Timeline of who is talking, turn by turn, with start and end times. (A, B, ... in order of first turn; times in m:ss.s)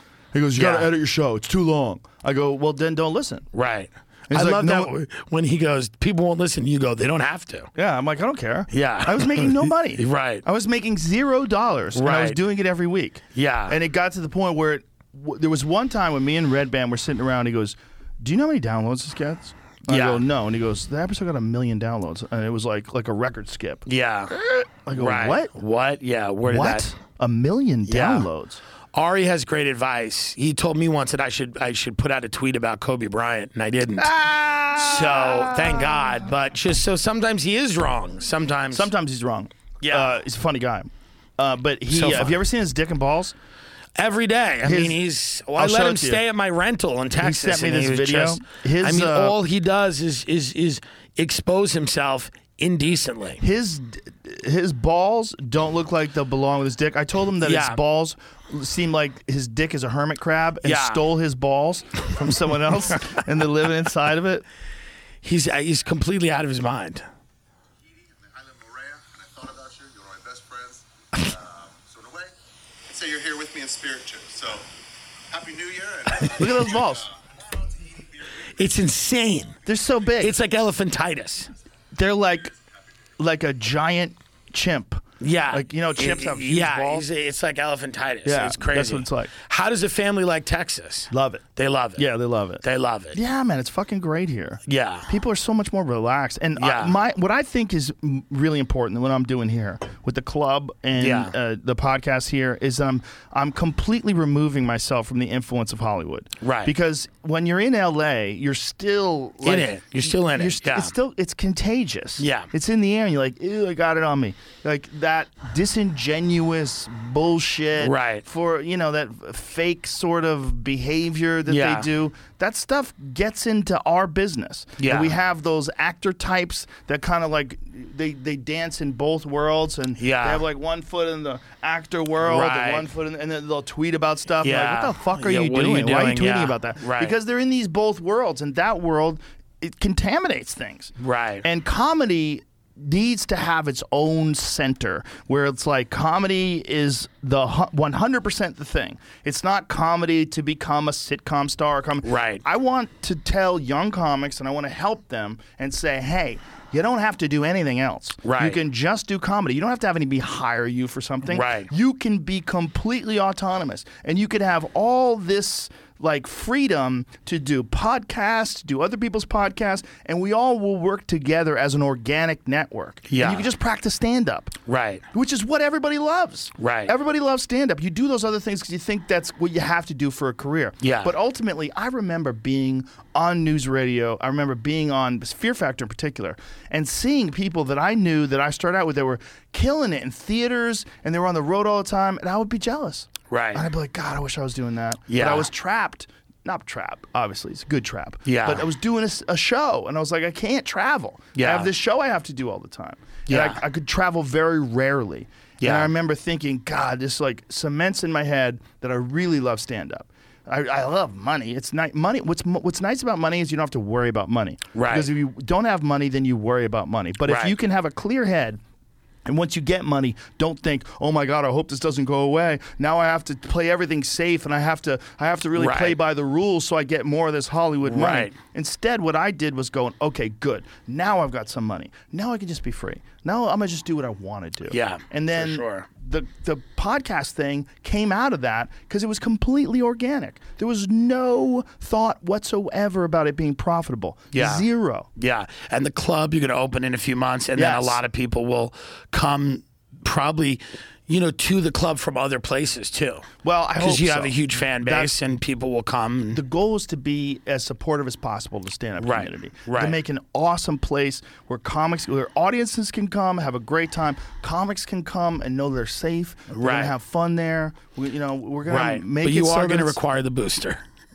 0:00.3-0:03.5 A
0:00.6-0:00.9 B
0:03.5-0:07.7 B
0:04.3-0:04.9 A
0:07.8-0:23.8 A
0:08.7-0:10.4 B
0:12.0-0:12.4 B
0:13.4-0:13.8 B
0:19.9-0:20.2 B
0:23.9-0:26.9 B
0:24.9-0:25.5 A
0:26.5-0:28.6 A
0:27.9-0:28.3 B
0:28.9-0:38.9 B
0:34.0-0:36.1 A
0:38.7-0:43.4 A
0:39.8-0:40.1 B
0:41.9-0:42.4 B
0:44.0-0:53.4 B
0:44.6-0:45.0 A
0:45.6-0:46.2 A
0:47.2-0:49.4 A
0:53.4-1:04.4 A
0:57.4-0:57.8 B
1:00.6-1:01.0 B
1:05.2-1:07.1 B
1:08.1-1:12.3 C
1:12.9-1:14.7 C
1:15.3-1:18.4 C
1:16.3-1:17.1 A
1:18.6-1:19.6 B
1:19.7-1:20.4 A
1:20.2-1:21.5 B
1:21.9-1:22.5 A
1:23.2-1:27.1 A
1:25.2-1:32.1 B
1:28.2-1:29.3 A
1:31.1-1:31.4 A
1:32.0-1:32.6 A
1:32.6-1:33.2 B
1:33.1-2:20.9 A
1:34.7-1:35.1 B
1:36.6-1:37.0 B
1:41.0-1:41.3 B
1:46.4-1:46.7 B
1:49.4-1:50.9 B
1:52.2-1:52.5 B
1:57.8-1:58.2 B
2:01.5-2:01.9 B
2:04.8-2:05.2 B
2:10.0-2:10.4 B
2:12.2-2:12.9 B
2:14.4-2:17.2 B
2:21.0-2:21.4 B
2:21.4-2:54.6 A
2:32.0-2:32.4 B
2:38.2-2:38.6 B
2:41.3-2:41.7 B
2:53.1-2:53.5 B
2:54.7-2:55.0 B
2:55.1-3:38.6 A
2:56.6-2:56.9 B
3:00.8-3:01.1 B
3:13.3-3:13.6 B
3:15.1-3:15.5 B
3:18.3-3:18.6 B
3:21.4-3:21.7 B
3:23.3-3:23.6 B
3:25.6-3:25.9 B
3:34.7-3:35.1 B
3:37.3-3:37.6 B
3:39.3-4:05.1 A
3:45.6-3:46.0 B
3:47.9-3:48.4 B
3:54.7-3:55.9 B
4:04.3-4:04.6 B
4:05.2-4:13.3 B
4:07.6-4:08.0 A
4:13.4-4:15.1 A
4:13.8-4:16.4 B
4:16.3-4:30.0 A
4:19.0-4:20.0 B
4:26.5-4:26.9 B
4:28.7-4:30.8 B